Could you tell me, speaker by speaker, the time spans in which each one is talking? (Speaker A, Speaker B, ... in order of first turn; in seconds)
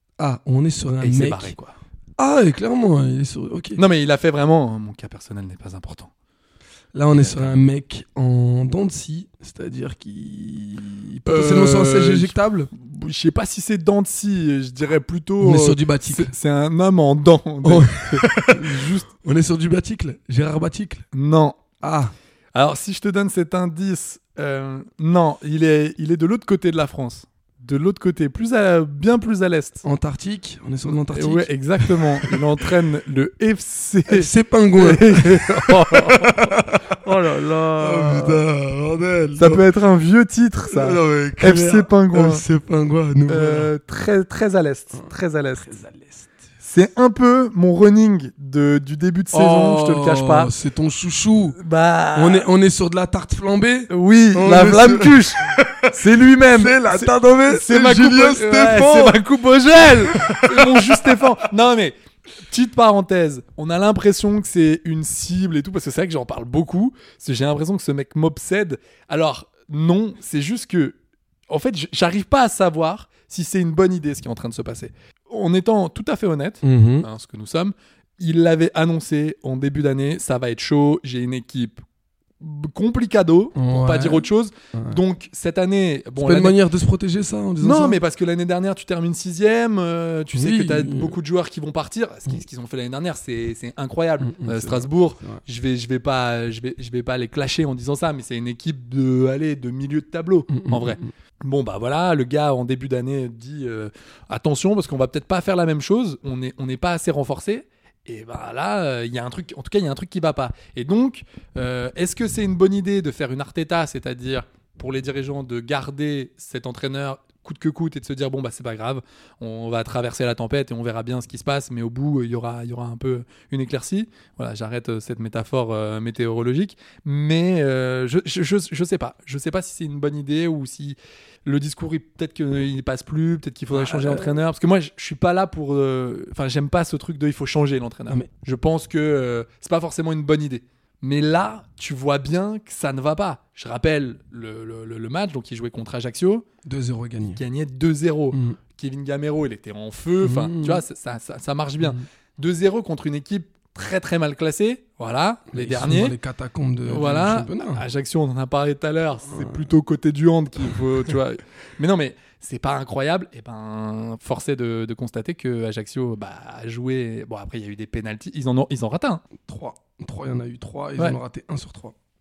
Speaker A: 0.2-1.5, 2.2-3.8, 6.9-12.7, 15.4-16.3, 17.6-21.0, 21.8-22.1, 29.8-32.4, 34.1-39.6, 40.7-43.7, 44.9-46.3, 49.3-51.6, 52.1-59.2, 60.0-61.2, 76.6-77.1, 83.5-85.0, 86.2-88.0, 90.3-91.2, 94.2-95.4, 100.5-101.1, 133.7-134.4, 146.6-147.4, 148.3-148.6, 150.2-150.8, 155.5-157.8, 159.3-159.7, 169.4-171.9
Speaker B: 1.0-1.7, 3.8-6.1, 7.1-7.6, 11.2-19.1, 21.1-21.6, 22.5-29.8, 30.9-38.4, 39.4-42.4, 43.3-45.8, 46.6-50.5, 51.6-52.5, 53.9-71.0, 71.5-81.8, 82.4-86.6, 87.6-146.4, 147.2-156.1, 156.9-169.2